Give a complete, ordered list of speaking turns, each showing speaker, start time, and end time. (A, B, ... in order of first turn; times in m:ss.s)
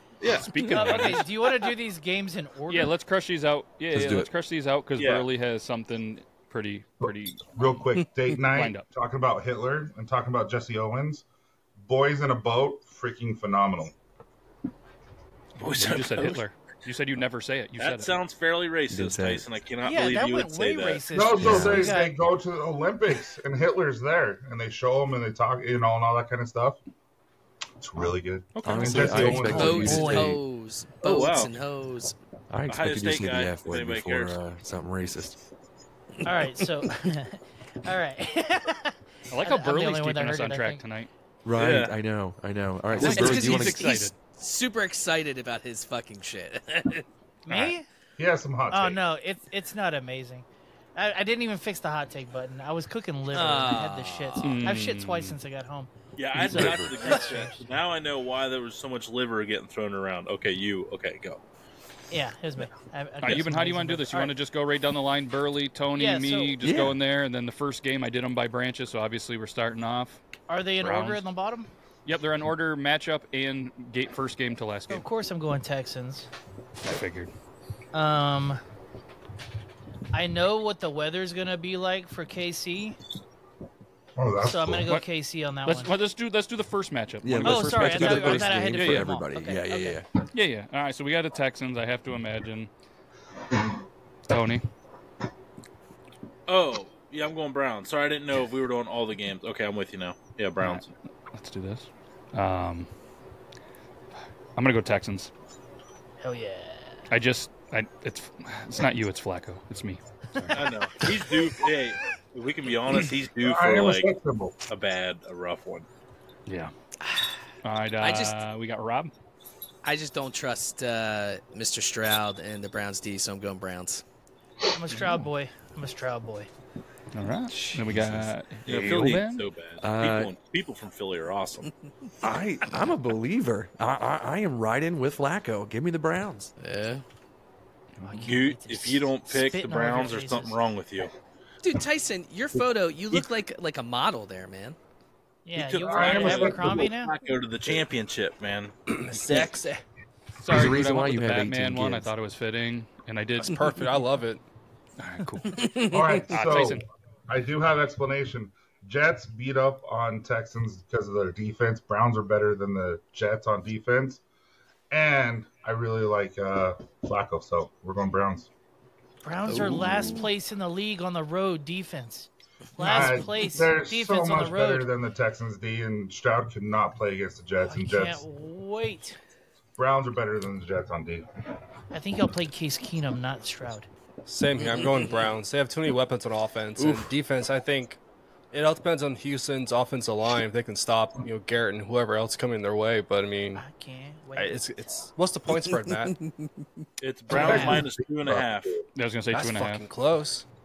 0:00.2-0:01.1 A
0:00.3-0:01.3 B
0:00.7-0:02.9 C
0:02.7-0:07.8 B
0:03.9-0:04.3 D
0:05.0-0:05.3 A
0:07.0-0:11.2 E
0:08.4-0:08.8 B
0:11.8-0:13.9 E
0:15.6-0:16.4 A
0:15.7-0:18.1 B
0:17.8-0:21.0 A
0:18.9-0:19.5 D
0:19.8-0:22.1 C
0:21.1-0:26.8 E
0:21.4-0:22.0 D
0:27.8-0:30.3 E
0:28.6-0:29.5 B
0:28.6-0:30.4 D
0:29.5-0:32.1 F
0:31.0-0:31.5 A
0:32.5-0:35.4 D
0:32.7-0:34.4 A
0:36.2-0:40.8 C
0:39.3-0:41.1 B
0:41.4-0:44.0 D
0:41.6-0:41.9 A
0:42.9-0:44.2 B
0:43.0-0:47.0 F
0:47.4-0:47.8 C
0:47.5-0:47.7 B
0:48.2-0:49.0 E
0:48.7-0:50.4 C
0:51.0-0:57.6 C
0:53.3-0:54.7 F
0:54.4-0:55.4 B
0:56.2-1:01.4 A
1:02.1-1:04.3 C
1:03.2-1:10.2 B
1:06.0-1:06.6 C
1:06.6-1:07.0 D
1:10.5-1:11.7 C
1:10.8-1:11.2 B
1:12.0-1:15.0 B
1:14.9-1:16.3 C
1:16.8-1:17.3 B
1:17.9-1:18.6 C
1:20.1-1:23.0 C
1:24.2-1:24.9 E
1:24.4-1:25.9 C
1:25.6-1:29.1 B
1:27.2-1:30.1 D
1:27.4-1:30.0 C
1:30.3-1:32.7 B
1:34.3-1:34.6 B
1:36.5-1:40.9 A
1:40.6-1:42.9 B
1:44.6-1:45.3 B
1:46.2-1:47.0 C
1:47.1-1:50.7 B
1:50.5-1:54.1 A
1:53.4-1:54.6 E
1:54.7-1:55.8 A
1:56.5-1:56.7 B
1:57.6-1:59.1 B
1:58.0-1:58.4 F
1:59.8-2:04.0 F
2:04.7-2:06.5 C
2:04.9-2:05.2 B
2:07.1-2:09.4 B
2:07.5-2:08.3 D
2:08.6-2:11.7 A
2:09.8-2:10.3 D
2:12.2-2:16.5 D
2:16.6-2:17.0 F
2:18.0-2:18.3 B
2:18.0-2:20.6 C
2:18.2-2:21.1 A
2:21.6-2:24.8 F
2:25.4-2:27.1 C
2:25.5-2:28.7 A
2:25.8-2:26.9 E
2:28.9-2:29.8 G
2:30.4-2:33.7 B
2:30.5-2:32.1 D
2:33.4-2:34.4 G
2:35.0-2:36.8 B
2:35.6-2:36.1 F
2:35.9-2:44.2 E
2:44.9-2:48.5 E
2:49.2-2:54.9 C
2:49.5-2:50.3 F
2:52.8-2:58.2 E
2:57.6-2:59.2 C
2:59.8-3:01.2 E
3:01.9-3:03.9 C
3:04.2-3:08.0 G
3:04.6-3:05.3 F
3:08.5-3:13.6 G
3:13.6-3:14.6 C
3:14.4-3:16.2 G
3:17.0-3:18.8 A
3:17.3-3:18.8 E
3:17.3-3:17.8 C
3:18.9-3:19.8 B
3:19.3-3:20.4 G